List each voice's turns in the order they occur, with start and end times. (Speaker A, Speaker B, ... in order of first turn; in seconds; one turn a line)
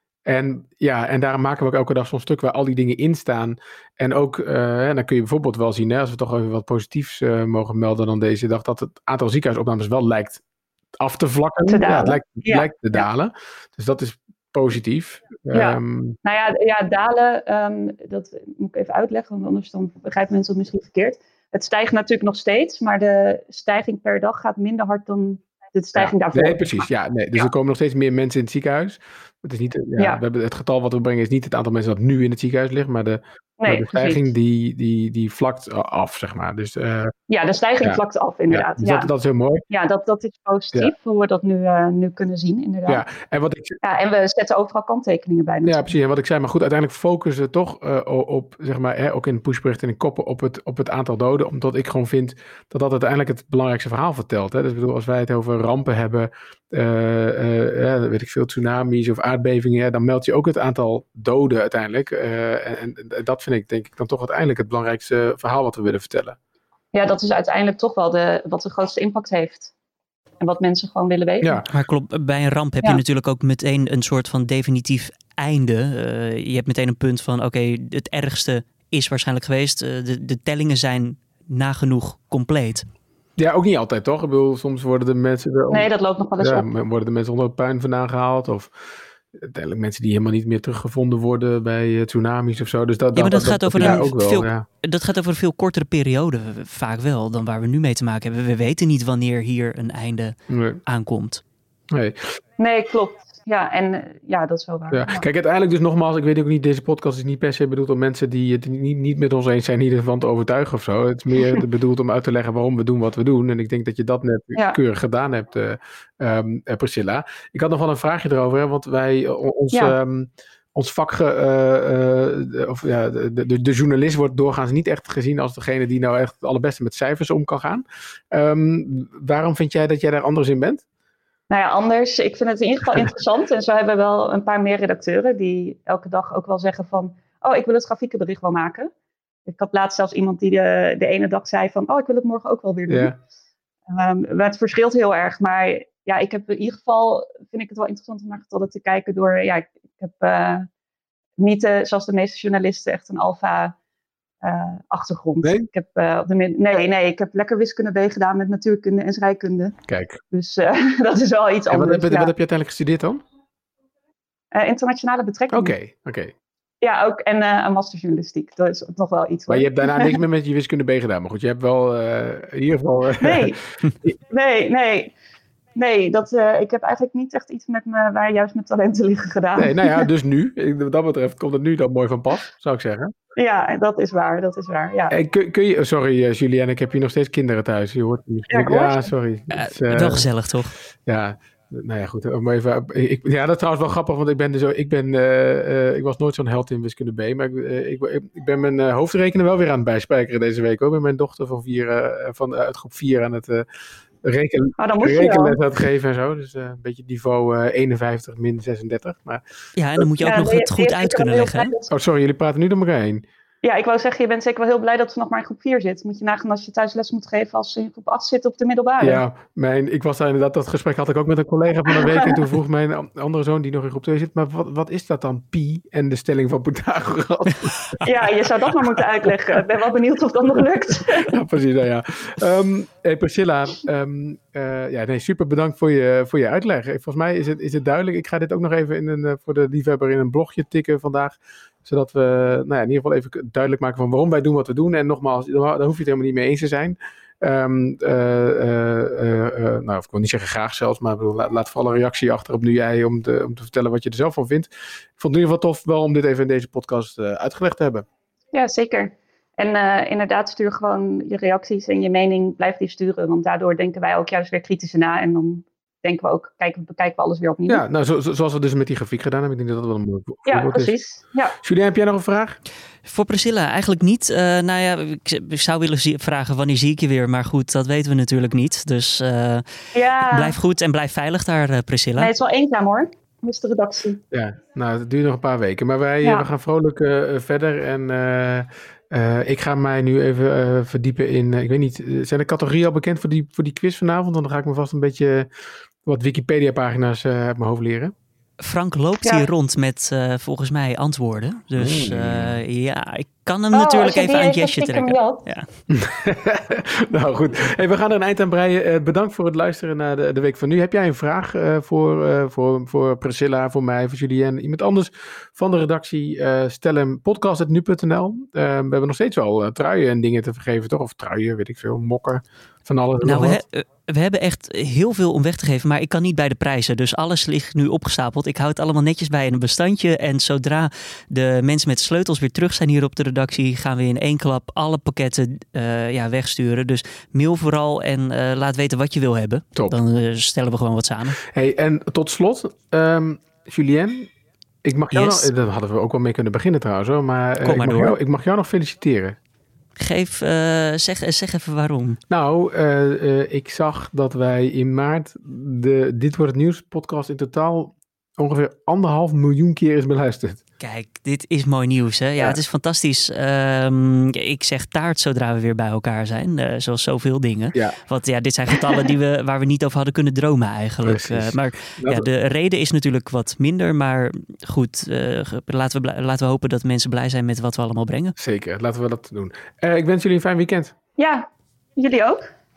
Speaker A: 0.2-10.4
Speaker A: 11.0-16.2
Speaker B: 11.6-13.1
Speaker B: 15.5-27.5
Speaker A: 25.9-37.1
Speaker B: 33.6-34.3
Speaker B: 37.3-39.1
Speaker A: 37.8-39.6
Speaker B: 39.7-43.0
Speaker A: 42.9-43.8
Speaker B: 43.8-45.9
Speaker A: 45.6-66.4
Speaker B: 66.9-69.7
Speaker B: 70.4-71.6
Speaker A: 71.4-71.7
Speaker C: 71.7-82.9
Speaker A: 83.4-88.7
Speaker B: 85.7-86.7
Speaker A: 89.3-94.7
Speaker C: 93.1-101.4
Speaker A: 100.5-100.8
Speaker A: 101.9-102.3
Speaker B: 102.6-105.2
Speaker A: 104.9-130.8
Speaker B: 131.5-138.9
Speaker B: 139.5-143.1
Speaker A: 142.9-143.2
Speaker B: 143.9-150.7
Speaker B: 151.4-153.7
Speaker B: 154.4-159.8
Speaker A: 155.4-155.7
Speaker A: 159.9-160.2
Speaker B: 160.3-162.3
Speaker A: 161.7-163.2
Speaker B: 164.5-165.7
Speaker A: 165.5-166.3
Speaker B: 166.8-170.2
Speaker A: 169.5-173.5
Speaker B: 173.2-173.6
Speaker B: 174.2-175.1
Speaker B: 175.7-180.1
Speaker A: 179.6-183.1
Speaker B: 183.3-185.2
Speaker A: 185.1-190.3
Speaker B: 188.5-189.1
Speaker C: 189.5-190.7
Speaker A: 191.1-203.7
Speaker A: 204.2-209.4
Speaker B: 204.8-205.6
Speaker C: 209.8-211.7
Speaker B: 210.2-211.9
Speaker A: 211.9-213.2
Speaker B: 213.6-219.2
Speaker A: 219.0-228.3
Speaker B: 221.9-222.4
Speaker B: 228.0-231.3
Speaker A: 231.0-258.1
Speaker B: 258.5-267.8
Speaker A: 267.7-270.9
Speaker B: 270.5-271.6
Speaker A: 271.6-272.6
Speaker C: 273.0-279.6
Speaker B: 279.9-280.6
Speaker C: 280.1-282.3
Speaker B: 282.2-284.2
Speaker A: 284.3-295.5
Speaker A: 296.0-298.1
Speaker C: 298.6-305.7
Speaker A: 301.8-302.6
Speaker B: 303.7-305.4
Speaker A: 305.9-323.6
Speaker C: 323.2-341.4
Speaker A: 341.4-344.3
Speaker A: 344.8-349.4
Speaker C: 345.1-345.5
Speaker C: 347.6-348.2
Speaker C: 350.0-352.2
Speaker A: 352.3-360.6
Speaker C: 360.8-378.3
Speaker A: 371.0-372.3
Speaker A: 378.4-380.9
Speaker B: 381.2-382.4